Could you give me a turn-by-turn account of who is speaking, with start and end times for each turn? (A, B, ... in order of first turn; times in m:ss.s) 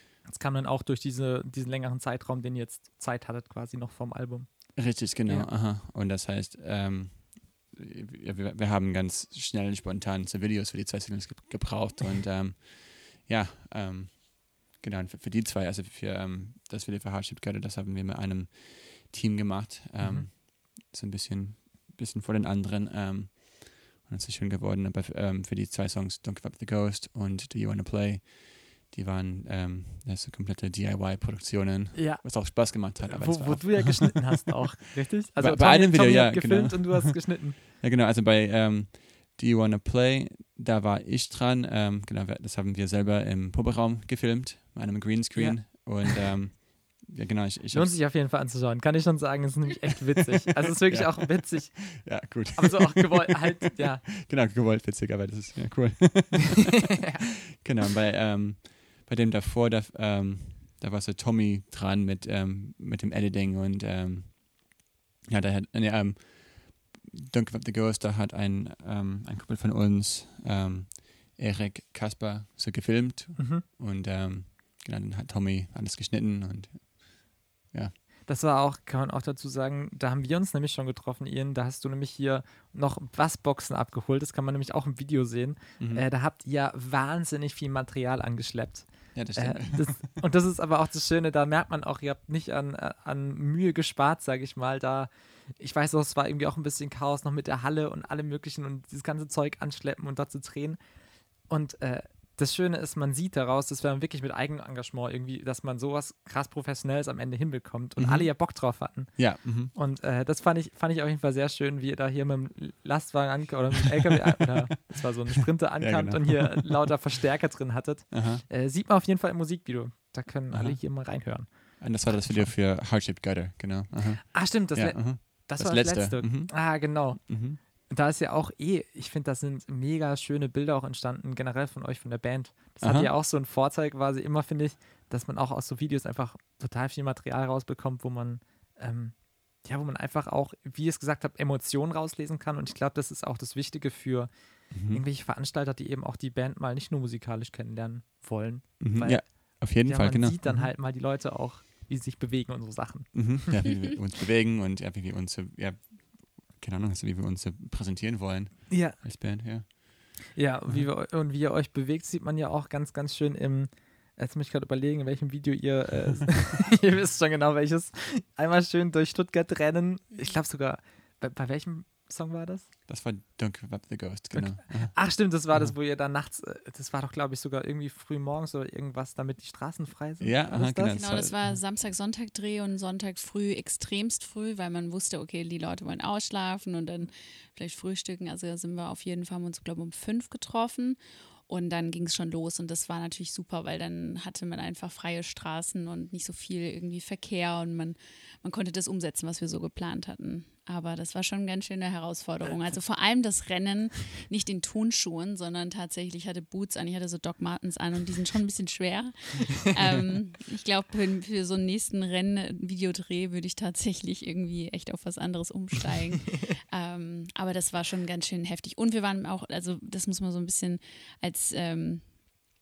0:00.2-0:05.5 A
0:04.7-0:34.7 B
0:20.0-0:20.3 A
0:31.9-0:37.6 A
0:35.3-0:48.0 B
0:45.3-0:46.2 A
0:47.7-0:54.1 A
0:50.8-0:57.0 B
0:57.0-0:57.7 A
0:57.6-1:17.9 B
1:13.4-1:13.6 A
1:18.2-2:02.5 A
1:25.8-1:26.0 B
1:29.1-1:30.0 B
1:48.0-1:49.7 B
1:55.8-1:56.9 B
1:58.1-1:58.4 B
2:00.5-2:07.6 B
2:04.3-2:33.6 A
2:12.8-2:13.1 B
2:24.7-2:25.0 B
2:28.8-2:30.7 B
2:33.1-2:40.9 B
2:38.7-2:39.7 A
2:40.3-2:52.7 A
2:52.9-2:55.7 B
2:54.3-3:01.0 A
3:00.2-3:01.6 B
3:00.9-3:42.2 C